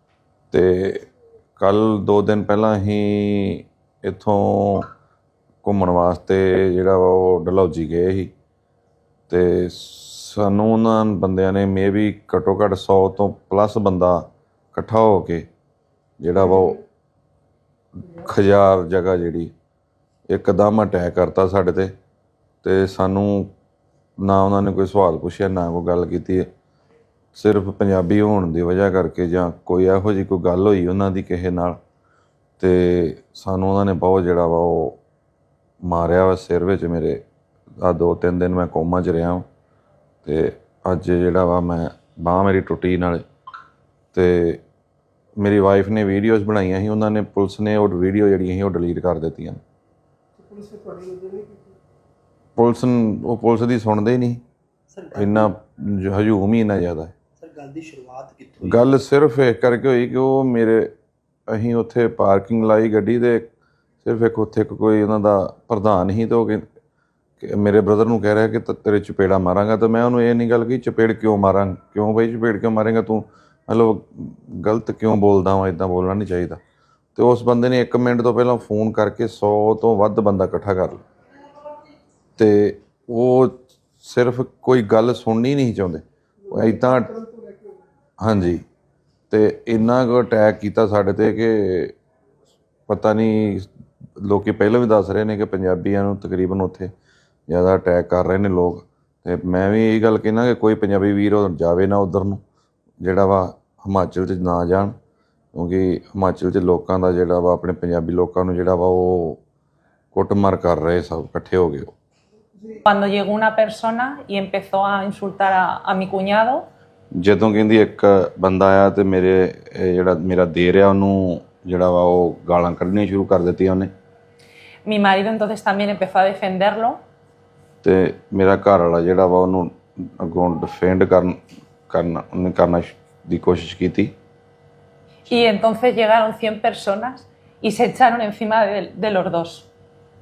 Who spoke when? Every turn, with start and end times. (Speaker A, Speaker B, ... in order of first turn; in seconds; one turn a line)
Speaker A: 0.5-1.1
Speaker A: 1.6-4.9
Speaker A: 5.6-8.3
Speaker A: 9.3-15.5
Speaker A: 16.2-16.8
Speaker A: 18.1-19.5
Speaker A: 20.3-21.9
Speaker A: 22.6-23.5
Speaker A: 24.2-26.5
Speaker A: 27.3-31.8
Speaker A: 32.6-35.0
Speaker A: 35.8-37.2
Speaker A: 37.8-39.5
Speaker A: 40.2-43.2
Speaker A: 44.1-44.6
Speaker A: 45.4-49.6
Speaker B: 50.5-51.6
Speaker A: 52.5-54.4
Speaker B: 54.9-55.5
Speaker A: 55.1-57.1
Speaker B: 57.4-58.9
Speaker A: 58.6-60.9
Speaker A: 61.5-63.5
Speaker A: 64.0-66.6
Speaker A: 67.4-76.6
Speaker A: 77.2-81.0
Speaker A: 82.4-87.2
Speaker A: 88.2-88.6
Speaker A: 89.3-91.9
Speaker A: 92.9-96.9
Speaker A: 97.5-102.4
Speaker A: 103.0-104.9
Speaker A: 105.5-109.4
Speaker A: 110.1-111.9
Speaker C: 112.8-116.6
Speaker A: 117.2-123.9
Speaker C: 124.8-127.0
Speaker A: 127.8-131.4
Speaker A: 131.9-134.1
Speaker C: 135.3-139.7